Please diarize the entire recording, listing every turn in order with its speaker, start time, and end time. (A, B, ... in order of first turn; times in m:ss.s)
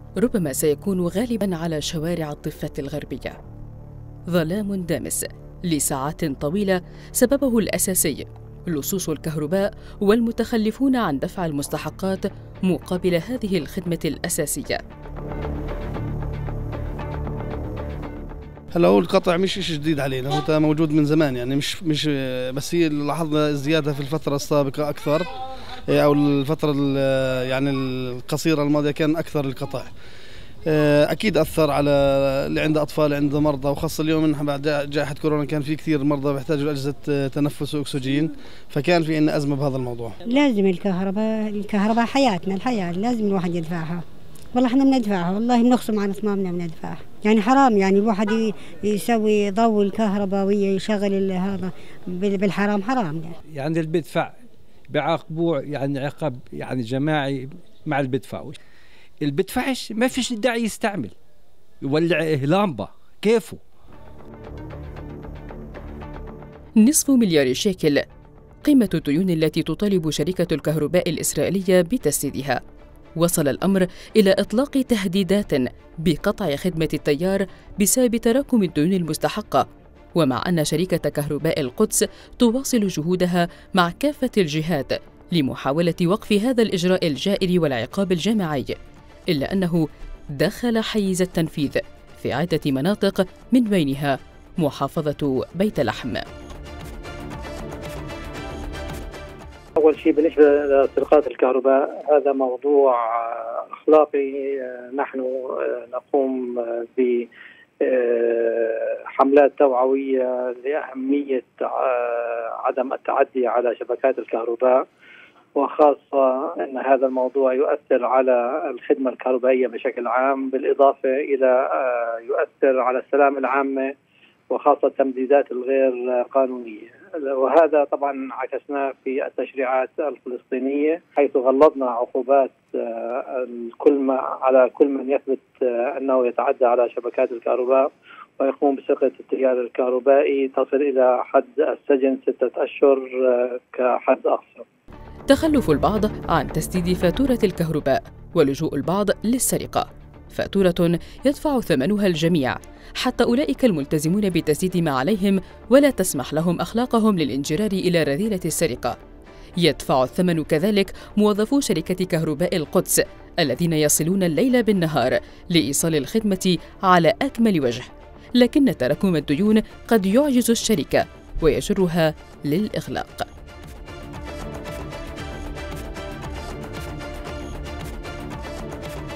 0:00.2-0:03.4 A
0:04.3-0:14.8 A
0:18.7-0:25.3 B
0:25.9-0:29.9 B
0:30.7-0:40.2 B
0:40.3-0:44.0 C
0:44.5-0:53.3 C
0:53.5-0:54.3 D
0:54.9-0:58.6 D
0:59.2-1:01.1 D
1:01.8-1:03.6 D
1:06.8-1:08.0 A
1:08.6-1:12.6 A
1:13.2-1:19.6 A
1:20.2-1:28.8 A
1:29.3-1:36.2 A
1:39.8-1:47.3 E
1:47.8-1:54.8 E
1:55.6-2:03.9 E
2:04.5-2:24.6 E
2:25.3-2:39.0 A
2:39.6-2:53.3 A